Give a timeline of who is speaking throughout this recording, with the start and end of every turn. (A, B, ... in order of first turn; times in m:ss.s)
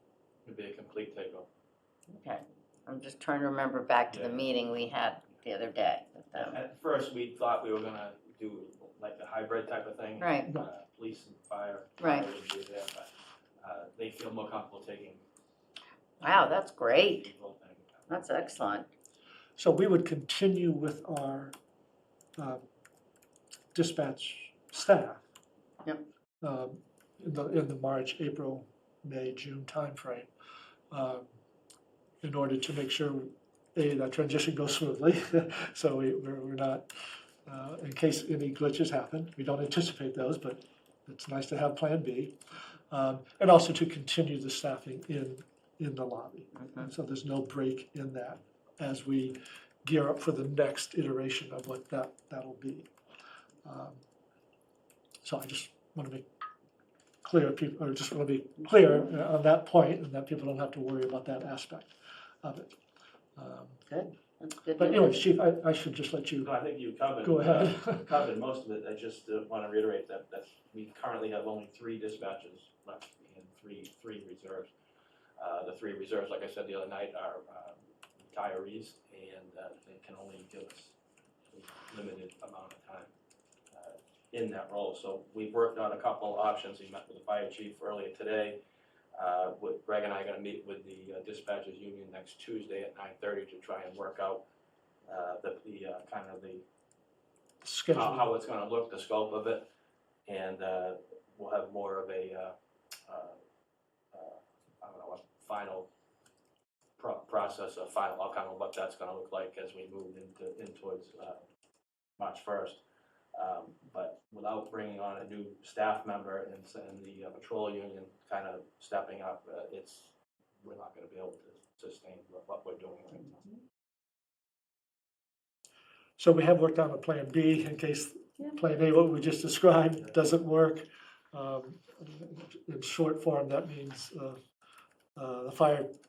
0:00.4-0:01.5 A
0:02.1-0:06.6 B
0:04.1-0:04.5 A
0:06.3-0:15.2 A
0:10.2-0:10.5 B
0:12.0-0:12.3 B
0:16.2-0:17.3 B
0:16.2-0:18.4 A
0:18.1-0:18.9 B
0:19.6-0:21.5 C
0:22.4-0:22.6 C
0:23.7-0:25.2 C
0:26.4-0:30.3 C
0:30.9-0:31.2 C
0:32.2-0:36.9 C
0:37.5-0:42.4 C
0:42.9-0:52.9 C
0:53.6-0:54.0 C
0:55.2-0:56.2 C
0:57.2-1:01.9 C
1:02.4-1:02.8 C
1:03.4-1:03.8 C
1:03.9-1:05.2 B
1:04.8-1:06.5 C
1:06.4-1:14.7 A
1:07.2-1:08.1 C
1:15.4-1:21.0 A
1:21.5-1:23.1 A
1:23.7-1:28.6 A
1:29.2-1:34.4 A
1:35.1-1:36.6 A
1:37.6-1:38.3 C
1:37.9-1:39.7 A
1:40.3-1:42.5 A
1:43.1-1:43.4 A
1:44.1-1:45.9 A
1:47.0-1:51.4 A
1:52.2-1:52.8 A
1:53.3-2:00.1 A
2:00.6-2:03.5 A
2:03.2-2:03.6 B
2:06.2-2:14.4 C
2:15.2-2:15.9 C